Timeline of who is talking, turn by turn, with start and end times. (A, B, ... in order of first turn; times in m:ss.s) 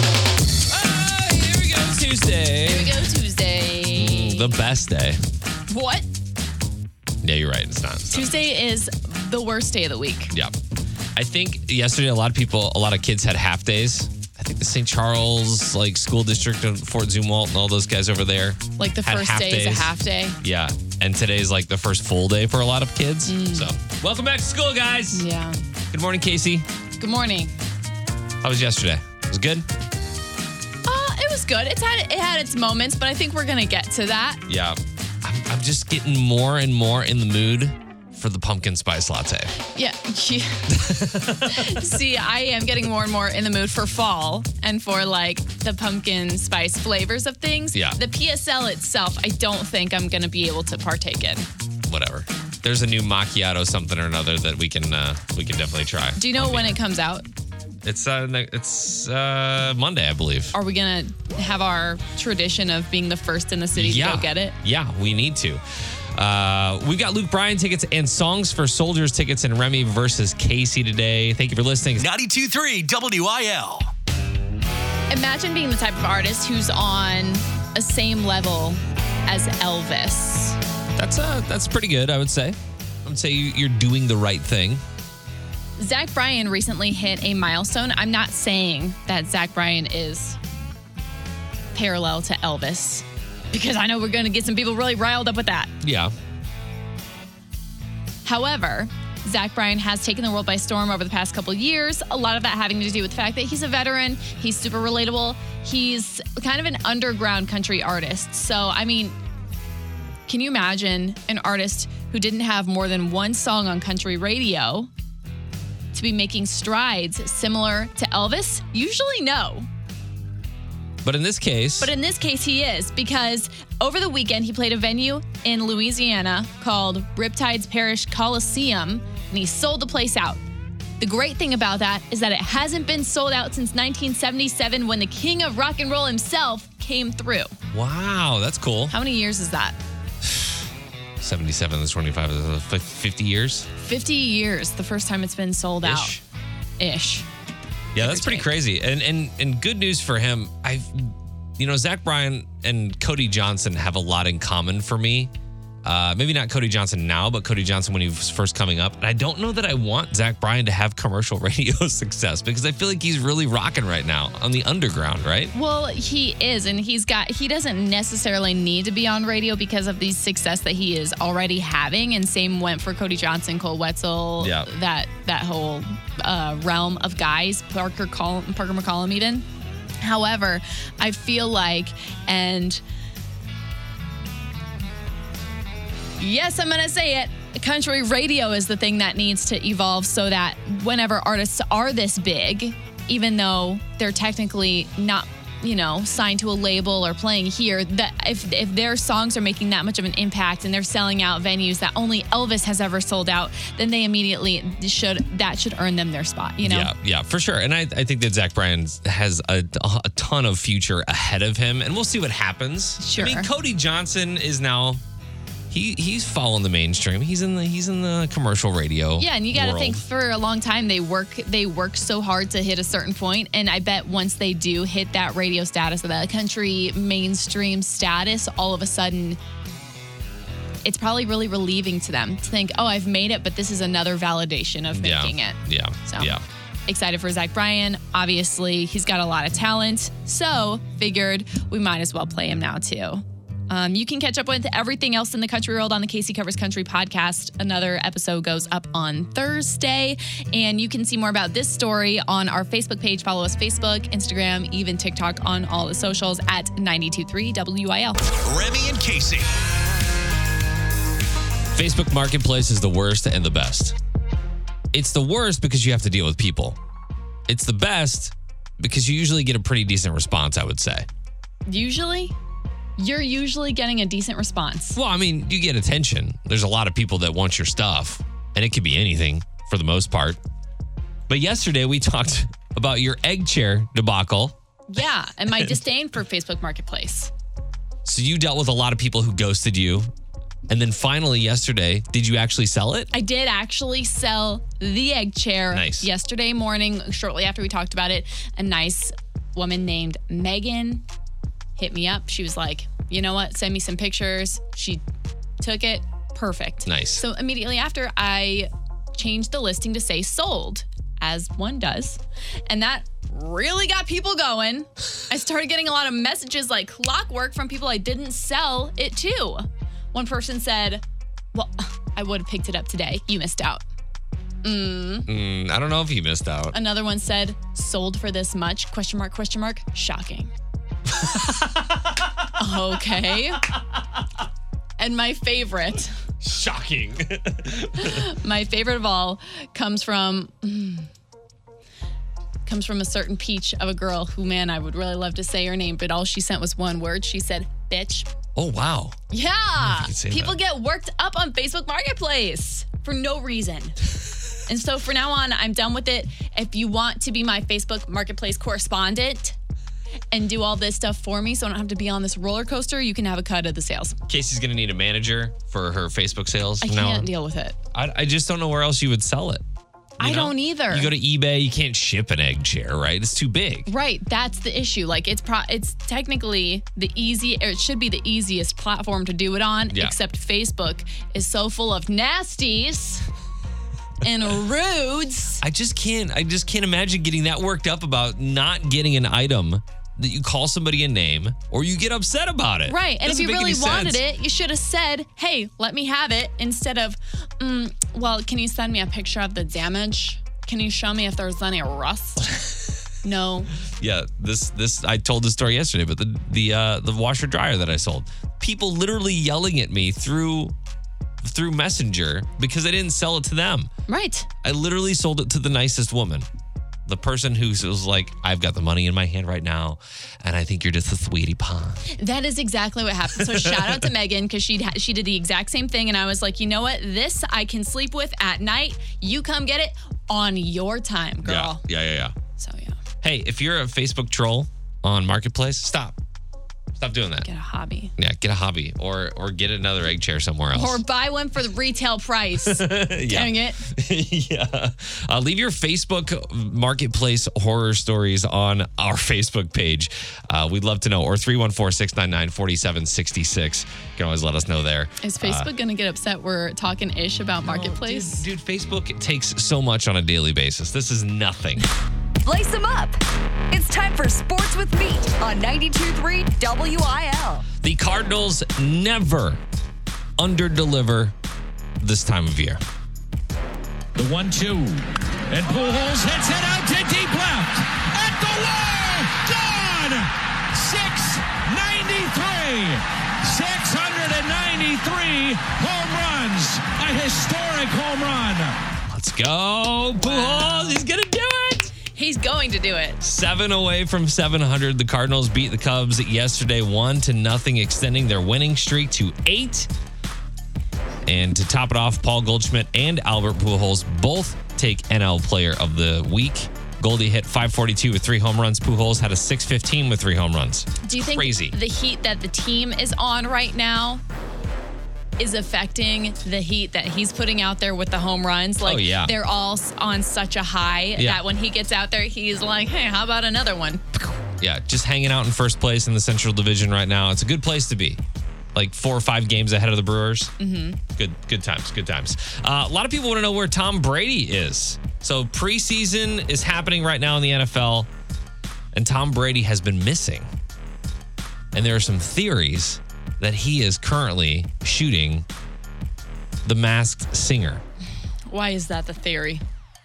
0:00.7-0:02.9 A
0:02.6-0:04.6 B
0:03.9-0:05.2 A
0:05.7-0:06.0 B
0:07.2-0:08.4 A
0:08.1-0:10.3 B
0:11.2-0:25.2 A
0:18.8-0:20.4 B
0:23.2-0:23.7 B
0:25.1-0:25.6 B
0:25.9-0:26.7 A
0:27.0-0:27.5 B
0:28.4-0:29.6 A
0:30.8-0:34.4 B
0:34.5-0:39.5 A
0:39.7-0:51.5 B
0:40.7-0:42.0 A
0:47.7-0:48.0 A
0:51.8-0:56.8 A
0:56.2-0:57.2 B
0:57.8-1:00.5 A
1:00.5-1:04.5 B
1:03.7-1:05.6 A
1:06.1-1:12.1 A
1:12.0-1:13.9 C
1:15.1-1:20.6 B
1:21.0-1:24.8 A
1:25.8-1:30.4 B
1:31.7-1:35.7 B
1:35.8-1:36.1 A
1:38.2-1:49.1 B
1:50.3-1:54.9 B
1:55.9-1:59.7 B
2:01.0-2:01.9 A
2:01.8-2:10.4 B
2:11.0-2:17.5 B
2:17.7-2:18.9 A
2:18.9-2:19.8 B
2:20.2-2:20.6 A
2:21.2-2:23.7 A
2:23.8-2:26.2 B
2:25.8-2:26.2 A
2:26.8-2:27.3 B
2:27.9-2:35.3 A
2:28.0-2:28.5 B
2:35.8-2:45.5 A
2:45.5-2:59.4 B
2:54.4-2:54.7 A
3:00.0-3:02.8 B
3:06.2-3:26.9 B
3:26.6-3:35.0 A
3:33.0-3:33.5 B
3:35.7-3:40.0 A
3:39.2-3:49.4 B
3:50.8-3:56.3 B
3:54.9-3:56.4 A
3:56.9-4:18.2 B
4:18.4-4:19.5 C
4:21.7-4:24.0 A
4:24.9-4:26.8 A
4:27.5-4:31.1 A
4:31.7-4:32.3 B
4:33.0-4:35.0 B
4:34.9-4:40.4 A
4:41.3-4:44.6 A
4:44.9-4:47.3 B
4:48.0-4:50.1 A
4:50.7-4:53.1 A
4:53.1-5:01.0 B
4:55.7-4:56.1 A
5:01.8-5:05.0 B
5:05.6-5:21.0 B
5:06.8-5:07.2 A
5:21.5-5:23.8 B
5:24.6-5:25.3 B
5:25.2-5:26.7 A
5:26.7-5:30.5 B
5:31.1-5:32.5 A
5:32.6-5:33.7 B
5:35.0-5:36.1 B
5:36.4-5:38.3 A
5:38.0-5:41.1 B
5:42.6-5:48.3 B
5:48.5-5:49.2 A
5:49.3-5:54.0 B
5:49.8-5:50.6 A
5:54.7-5:59.6 B
6:00.3-6:04.2 B
6:04.3-6:07.3 A
6:06.8-6:07.8 B
6:07.9-6:09.6 A
6:10.2-6:11.1 B
6:10.2-6:13.9 A
6:13.8-6:23.3 B
6:24.2-6:25.6 B
6:25.6-6:34.2 A
6:32.9-6:42.5 B
6:43.2-6:43.7 B
6:44.0-6:50.7 A
6:51.4-6:53.9 A
6:54.1-6:54.5 B
6:54.6-6:56.4 A
6:57.0-7:02.1 A
7:02.1-7:11.8 B
7:03.4-7:04.0 A
7:11.4-7:12.3 A
7:12.6-7:13.0 B
7:13.2-7:16.2 A
7:17.0-7:17.5 A
7:17.4-7:18.1 B
7:18.2-7:21.0 A
7:20.7-7:23.8 B
7:22.6-7:35.7 A
7:35.2-7:38.4 B
7:37.6-7:41.8 A
7:42.4-7:43.2 D
7:43.7-7:47.6 D
7:47.8-7:49.6 A
7:50.4-7:51.3 A
7:52.0-7:52.8 A
7:54.2-8:08.8 E
8:09.1-8:11.9 A
8:10.2-8:11.0 B
8:12.1-8:13.2 B
8:13.2-8:19.9 A
8:21.2-8:31.8 A
8:31.0-8:34.2 B
8:35.4-8:44.0 B
8:38.8-8:39.3 A
8:41.2-8:41.4 A
8:44.6-8:48.2 A
8:48.7-8:50.5 A
8:50.6-8:51.0 B
8:51.2-8:58.1 A
8:58.9-9:00.5 A
9:01.7-9:05.4 A
9:06.6-9:07.8 A
9:08.5-9:09.6 B